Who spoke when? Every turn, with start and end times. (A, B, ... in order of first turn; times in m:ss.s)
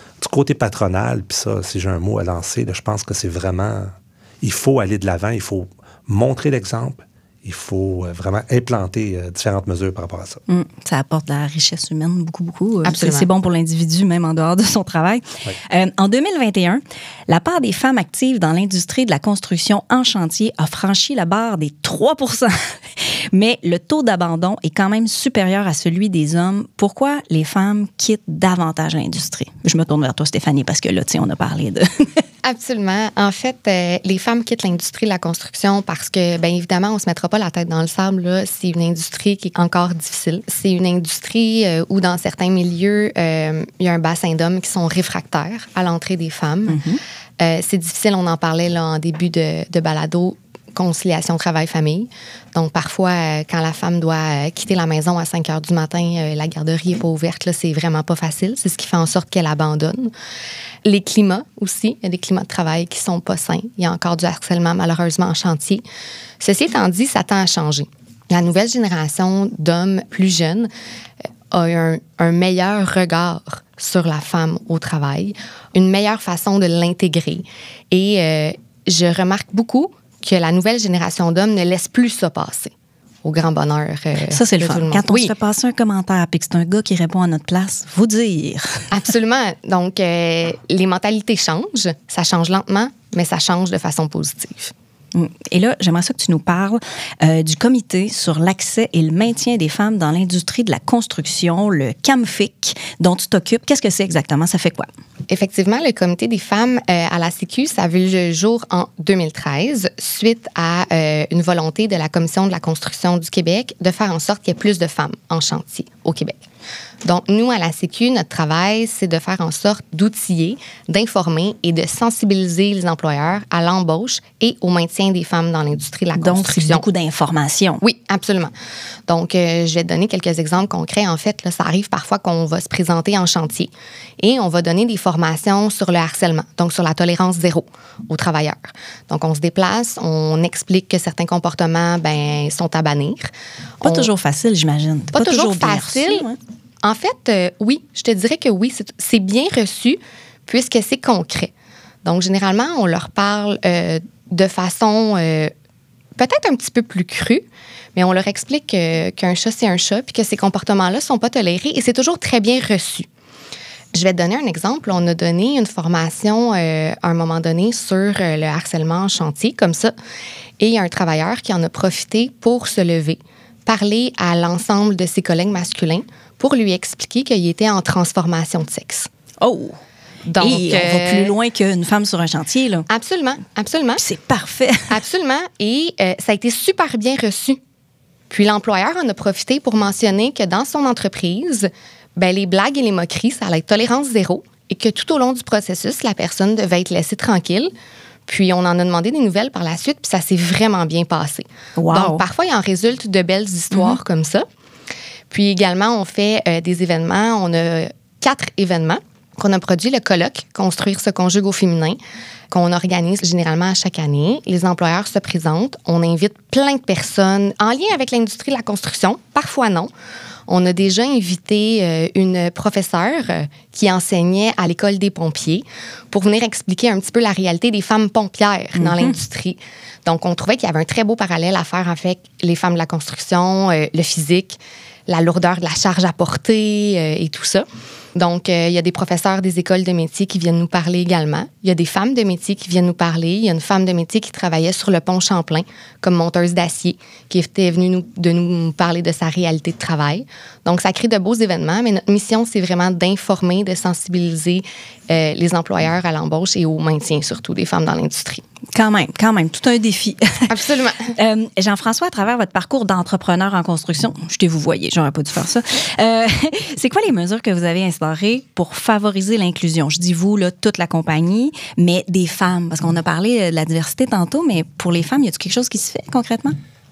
0:00.2-0:10.4 A
0:10.5-0:32.0 B
0:12.8-0:13.3 C
0:32.4-0:46.8 C
0:46.7-0:47.0 B
0:47.4-1:00.1 C
1:00.8-1:05.8 C
1:06.4-1:10.7 C
1:11.5-1:22.7 C
1:23.2-1:25.3 C
1:24.2-1:28.9 B
1:29.1-1:34.7 C
1:35.1-1:44.9 B
1:45.3-1:56.4 C
1:57.0-2:06.8 C
2:06.2-2:07.8 B
2:07.8-2:08.5 C
2:09.1-2:23.3 C
2:23.8-2:26.4 B
2:23.8-2:24.1 C
2:25.1-2:26.3 C
2:26.8-2:31.5 C
2:32.0-2:35.5 C
2:36.2-2:43.1 C
2:43.9-2:49.9 C
2:50.6-2:59.1 C
2:59.4-2:59.8 B
3:00.3-3:01.4 C
3:00.4-3:02.8 B
3:02.9-3:04.0 C
3:04.0-3:05.0 B
3:04.9-3:07.6 C
3:08.3-3:17.7 C
3:18.3-3:24.4 C
3:21.8-3:22.2 B
3:23.7-3:24.0 B
3:25.3-3:32.0 C
3:32.5-3:39.9 C
3:40.5-3:57.6 C
3:48.8-3:49.1 B
3:58.2-4:18.4 C
4:18.7-4:20.5 B
4:20.5-4:21.1 C
4:21.1-4:36.5 B